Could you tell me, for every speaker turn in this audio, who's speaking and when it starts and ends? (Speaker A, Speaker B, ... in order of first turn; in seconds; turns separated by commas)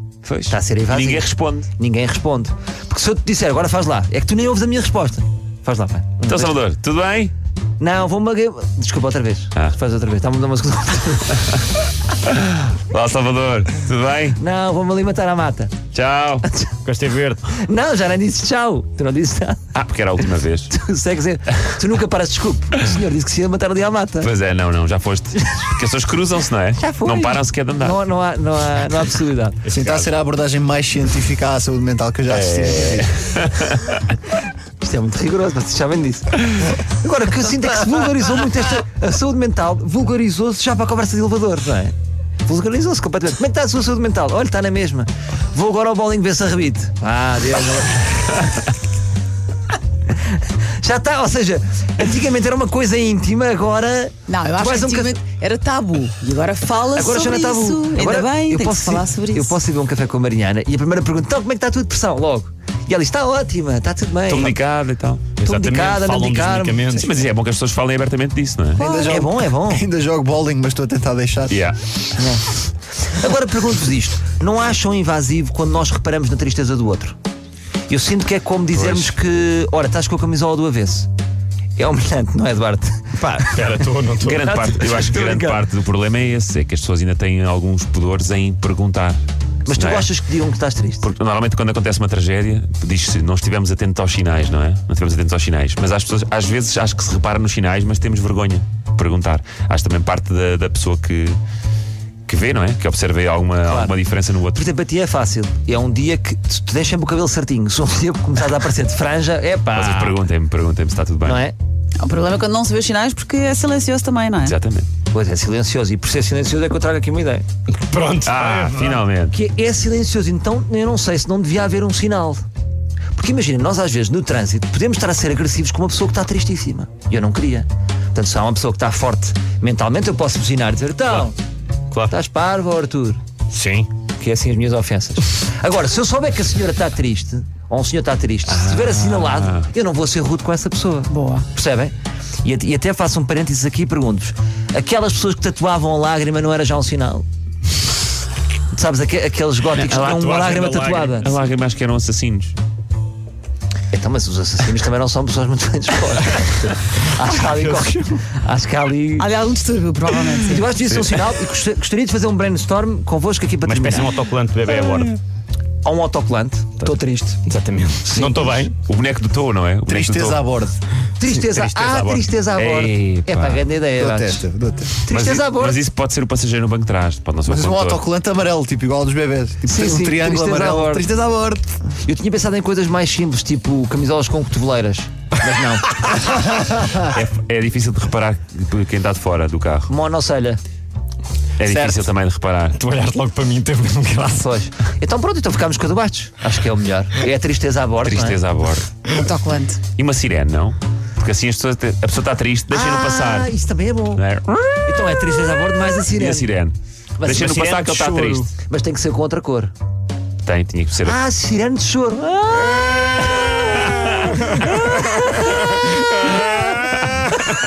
Speaker A: 0.2-1.7, Speaker B: 0.5-6.6, Speaker A: 6.2-7.3, Speaker B: 7.8-11.6, Speaker A: 12.2-14.4, Speaker B: 14.3-15.8, Speaker A: 15.9-16.4, Speaker B: 16.5-16.7, Speaker C: 16.8-17.4, Speaker B: 17.5-19.6, Speaker A: 19.7-20.7, Speaker B: 20.7-24.3, Speaker A: 24.2-28.0, Speaker B: 26.8-29.6, Speaker D: 29.6-33.1, Speaker A: 32.3-34.0, Speaker B: 34.8-41.9, Speaker B: 42.4-48.7, Speaker B: 50.8-55.2, Speaker E: 54.3-59.5, Speaker B: 56.9-64.6, Speaker A: 64.3-65.3, Speaker C: 65.4-67.2, Speaker B: 65.4-67.1, Speaker A: 66.9-68.8, Speaker D: 68.8-71.6, Speaker E: 68.8-69.1, Speaker B: 68.9-69.8, Speaker A: 71.5-71.8, Speaker B: 72.2-72.4, Speaker B: 73.0-77.2, Speaker B: 77.9-81.1, Speaker A: 78.7-79.0, Speaker B: 81.8-83.6, Speaker C: 83.2-84.4, Speaker A: 84.2-90.1, Speaker B: 84.4-85.6, Speaker B: 89.7-91.0, Speaker A: 91.0-101.4, Speaker A: 102.3-104.7, Speaker B: 103.6-103.9, Speaker B: 104.5-110.2, Speaker A: 109.7-111.4, Speaker B: 111.2-111.5, Speaker E: 112.0-114.6, Speaker A: 114.4-114.9, Speaker B: 115.1-117.4, Speaker C: 117.7-119.0, Speaker A: 118.2-119.3, Speaker B: 119.3-122.4, Speaker B: 123.2-131.3, Speaker B: 132.1-133.2, Speaker C: 133.5-133.9, Speaker B: 134.2-147.2, Speaker A: 138.4-139.7, Speaker E: 141.1-141.4, Speaker B: 148.7-151.3, Speaker A: 149.8-152.5, Speaker B: 153.9-159.3, Speaker E: 159.2-160.7, Speaker B: 160.4-164.1, Speaker A: 160.9-161.2, Speaker C: 163.6-165.2, Speaker B: 165.8-167.4, Speaker C: 166.8-168.7, Speaker B: 168.1-168.7, Speaker A: 168.8-170.4, Speaker D: 169.9-170.8, Speaker B: 171.2-174.4, Speaker C: 171.3-172.3, Speaker A: 172.6-173.6, Speaker D: 174.0-175.1, Speaker B: 175.0-175.8, Speaker A: 175.1-178.0, Speaker D: 177.5-181.7, Speaker B: 179.6-181.1, Speaker B: 182.0-186.6, Speaker A: 186.9-189.9, Speaker B: 189.9-190.6, Speaker A: 191.6-192.8, Speaker C: 191.6-192.0, Speaker C: 192.7-194.5, Speaker B: 194.3-198.4, Speaker A: 198.0-198.9, Speaker E: 199.2-199.8, Speaker A: 199.9-203.5, Speaker B: 202.7-204.2, Speaker A: 204.2-204.7, Speaker B: 204.8-206.5, Speaker A: 206.1-208.5, Speaker B: 207.2-207.7, Speaker C: 207.6-208.4, Speaker B: 208.5-209.7, Speaker A: 210.4-211.2, Speaker B: 211.0-213.8